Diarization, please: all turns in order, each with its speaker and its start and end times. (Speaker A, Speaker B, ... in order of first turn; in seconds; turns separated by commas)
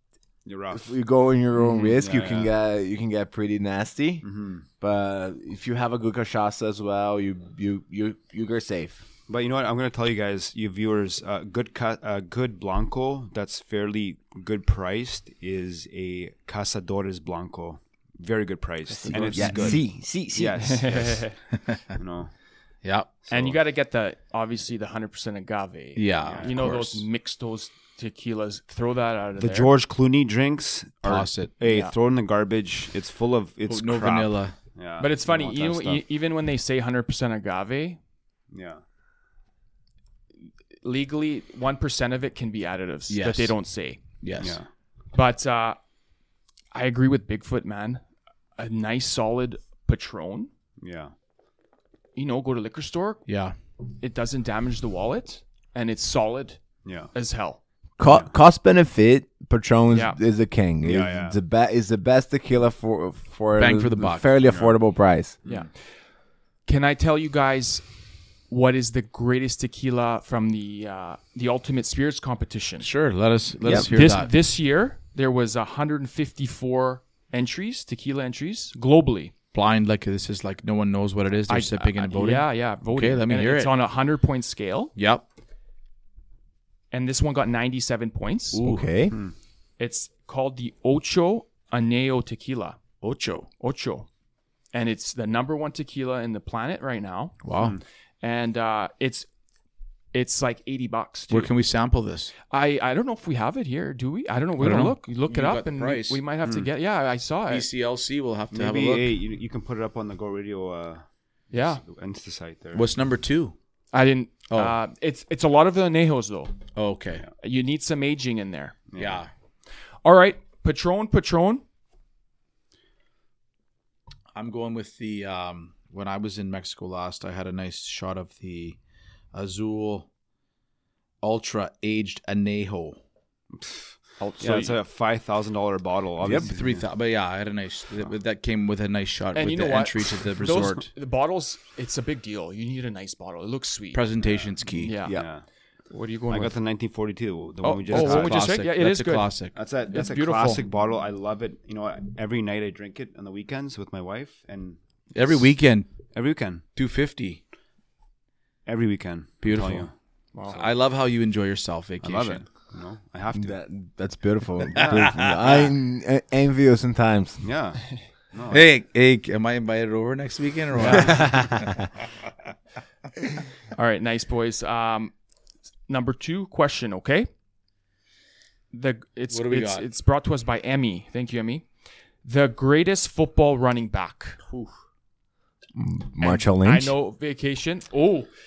Speaker A: 0.5-0.9, Speaker B: 0.7-4.2, Speaker A: 1.9-2.5, Speaker A: 4.2-4.7, Speaker B: 4.8-9.0, Speaker A: 9.3-21.3, Speaker C: 18.9-19.5, Speaker B: 19.0-20.6, Speaker C: 20.6-21.3, Speaker A: 22.0-22.3, Speaker D: 22.8-23.1, Speaker A: 23.2-23.6, Speaker C: 23.3-29.7, Speaker D: 25.9-27.1, Speaker A: 26.2-26.5, Speaker A: 29.4-36.0, Speaker D: 31.0-31.5, Speaker C: 31.6-31.9, Speaker D: 33.7-34.5, Speaker C: 35.0-38.0, Speaker A: 38.5-38.8, Speaker C: 40.8-44.0, Speaker D: 43.1-43.5, Speaker D: 44.2-44.6, Speaker A: 44.4-44.7, Speaker C: 45.1-45.8, Speaker C: 46.7-48.0, Speaker C: 48.6-50.5, Speaker A: 50.8-51.1, Speaker C: 52.1-53.2, Speaker D: 53.3-53.5, Speaker C: 54.0-56.6, Speaker A: 56.8-57.1, Speaker C: 57.1-57.6, Speaker B: 58.0-65.3, Speaker C: 59.9-60.2, Speaker A: 60.8-61.4, Speaker D: 63.6-64.3, Speaker A: 64.4-64.8, Speaker C: 65.5-65.7, Speaker C: 66.7-67.8, Speaker C: 68.5-72.9, Speaker D: 72.8-74.3, Speaker B: 73.6-73.9, Speaker C: 73.7-79.3, Speaker D: 79.5-83.7, Speaker C: 81.5-84.9, Speaker D: 85.0-85.2, Speaker C: 86.9-88.6, Speaker B: 88.5-89.1, Speaker C: 89.8-92.8, Speaker D: 93.0-93.5, Speaker C: 93.6-94.1, Speaker C: 94.7-97.4, Speaker D: 97.4-97.8, Speaker A: 97.6-97.8, Speaker C: 98.2-99.3, Speaker C: 100.1-101.5, Speaker D: 101.3-102.3, Speaker C: 102.5-107.7, Speaker D: 104.6-106.2, Speaker D: 107.5-109.1, Speaker A: 108.5-111.0, Speaker C: 111.5-111.8, Speaker A: 111.8-112.8, Speaker D: 112.7-113.5, Speaker C: 113.9-116.6, Speaker D: 114.5-114.8, Speaker D: 116.8-117.3, Speaker C: 117.4-118.8, Speaker A: 118.9-119.2, Speaker D: 119.0-119.3, Speaker C: 120.0-121.6, Speaker D: 124.3-128.8, Speaker D: 129.3-130.1, Speaker D: 131.2-133.0, Speaker A: 133.5-136.8, Speaker C: 134.2-134.8, Speaker B: 136.2-136.5, Speaker D: 136.3-140.9, Speaker C: 139.3-144.0, Speaker D: 143.9-144.9, Speaker A: 144.2-144.5, Speaker C: 144.8-145.2, Speaker A: 145.1-145.4, Speaker C: 145.9-146.6, Speaker A: 146.3-148.4, Speaker C: 147.6-149.3, Speaker D: 147.9-149.5, Speaker A: 149.5-155.6, Speaker C: 149.9-150.6, Speaker D: 155.1-155.9, Speaker A: 156.1-156.6, Speaker D: 156.8-157.4, Speaker A: 158.7-159.9, Speaker D: 159.4-159.9, Speaker C: 160.3-160.6, Speaker D: 160.5-162.4, Speaker A: 162.0-163.6, Speaker B: 163.3-167.4, Speaker A: 164.7-165.2, Speaker D: 164.7-165.7, Speaker A: 167.4-168.7, Speaker D: 168.5-171.7, Speaker B: 170.8-171.8, Speaker C: 170.8-171.1, Speaker C: 173.7-175.1, Speaker C: 175.9-177.3, Speaker C: 178.7-181.6, Speaker D: 179.3-179.8, Speaker C: 182.2-184.4, Speaker D: 184.4-184.7, Speaker B: 185.7-186.9, Speaker C: 186.2-188.3